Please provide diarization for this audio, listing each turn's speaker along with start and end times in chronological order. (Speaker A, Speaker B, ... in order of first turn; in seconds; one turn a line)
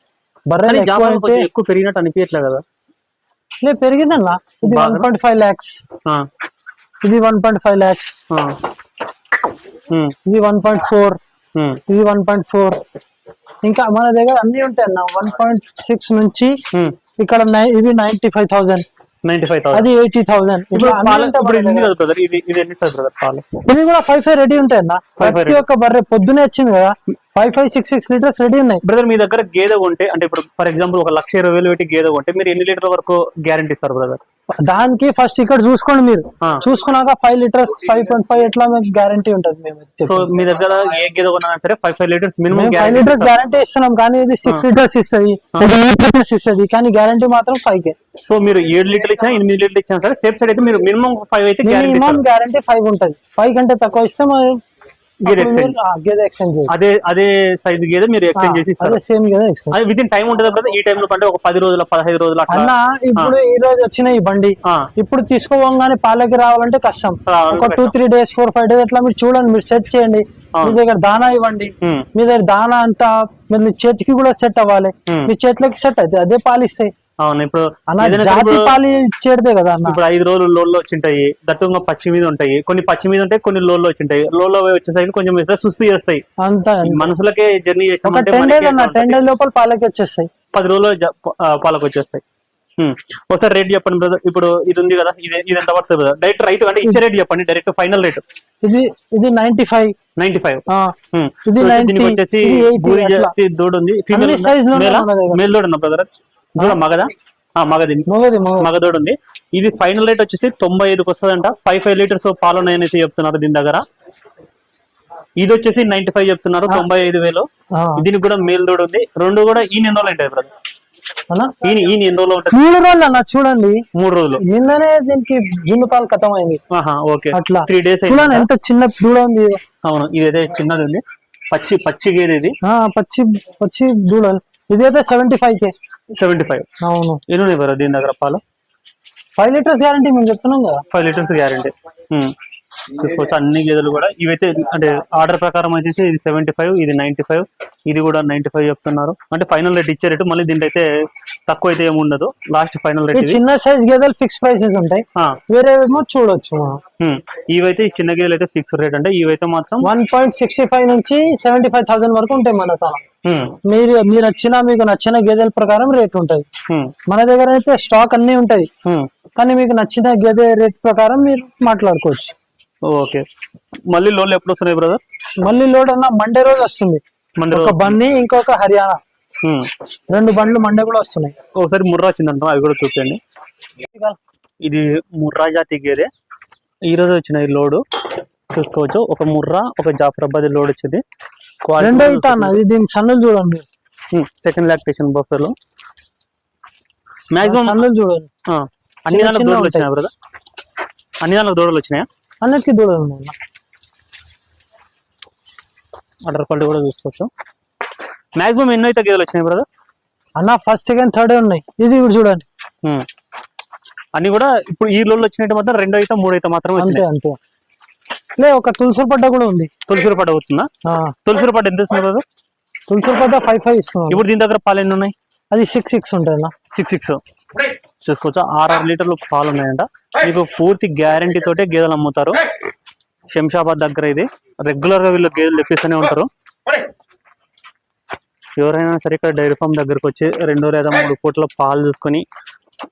Speaker A: 0.5-1.5
Speaker B: 0.6-2.6
Speaker A: 3.6-5.8
Speaker B: 4.6-5.1
Speaker A: 7.0-8.2
Speaker B: 8.3-8.6
Speaker B: 9.9-10.1
Speaker A: 10.2-11.2
Speaker B: 11.5-11.8
Speaker A: 11.9-12.8
Speaker A: 13.6-16.6
Speaker A: 17.2-18.8
Speaker B: 19.2-19.9
Speaker A: 19.7-21.9
Speaker B: 20.7-23.4
Speaker A: 23.6-28.8
Speaker B: 25.2-25.6
Speaker B: 28.8-34.2
Speaker A: 34.6-40.3
Speaker B: 40.0-43.3
Speaker A: 42.5-47.9
Speaker B: 48.2-52.2
Speaker A: 51.6-54.6
Speaker B: 55.2-55.7
Speaker A: 55.2-56.7
Speaker B: 56.7-59.0
Speaker A: 58.3-59.8
Speaker B: 59.7-63.3
Speaker A: 62.5-76.9
Speaker B: 64.6-64.9
Speaker B: 67.2-67.9
Speaker B: 71.8-72.1
Speaker B: 77.2-78.8
Speaker A: 77.9-80.0
Speaker B: 79.8-86.2
Speaker A: 86.4-87.1
Speaker B: 86.8-89.3
Speaker A: 88.0-90.3
Speaker B: 90.5-92.2
Speaker B: 92.8-98.2
Speaker A: 98.6-99.9
Speaker B: 100.2-108.1
Speaker A: 100.7-100.9
Speaker A: 101.5-103.3
Speaker A: 104.1-105.4
Speaker A: 108.1-108.7
Speaker B: 108.6-113.8
Speaker B: 115.4-117.5
Speaker A: 117.7-118.0
Speaker B: 118.0-120.5
Speaker B: 121.6-122.6
Speaker A: 122.5-123.8
Speaker B: 123.9-124.4
Speaker A: 124.4-126.6
Speaker B: 126.7-128.5
Speaker A: 127.3-129.6
Speaker B: 129.8-132.5
Speaker A: 132.6-135.7
Speaker B: 136.1-136.7
Speaker A: 136.8-137.2
Speaker B: 137.3-138.4
Speaker A: 139.4-140.8
Speaker B: 140.9-142.3
Speaker B: 142.9-150.9
Speaker B: 151.5-153.4
Speaker A: 153.1-156.8
Speaker B: 157.0-159.9
Speaker A: 159.8-163.0
Speaker B: 163.2-163.6
Speaker A: 163.6-166.4
Speaker B: 166.7-166.9
Speaker A: 167.1-168.7
Speaker A: 169.4-172.3
Speaker B: 172.8-173.2
Speaker B: 173.9-175.0
Speaker A: 175.4-179.0
Speaker B: 177.4-178.0
Speaker B: 179.4-179.7
Speaker A: 180.1-181.3
Speaker B: 181.6-183.2
Speaker B: 184.6-186.1
Speaker B: 186.9-187.8
Speaker B: 188.5-191.0
Speaker B: 191.6-192.6
Speaker A: 191.8-193.7
Speaker B: 194.1-195.5
Speaker B: 197.3-197.8
Speaker A: 197.4-198.3
Speaker B: 198.5-200.1
Speaker A: 199.1-199.9
Speaker B: 201.2-202.1
Speaker A: 202.4-203.3
Speaker B: 206.3-207.3
Speaker B: 208.4-209.7
Speaker A: 210.4-212.5
Speaker B: 214.1-217.0
Speaker A: 216.8-217.4
Speaker A: 218.4-219.7
Speaker B: 219.9-220.7
Speaker A: 220.8-221.2
Speaker B: 221.2-222.2
Speaker A: 222.9-224.2
Speaker B: 224.1-225.1
Speaker A: 225.5-226.5
Speaker B: 226.7-227.2
Speaker B: 228.0-232.4
Speaker B: 233.3-236.3
Speaker B: 238.6-242.2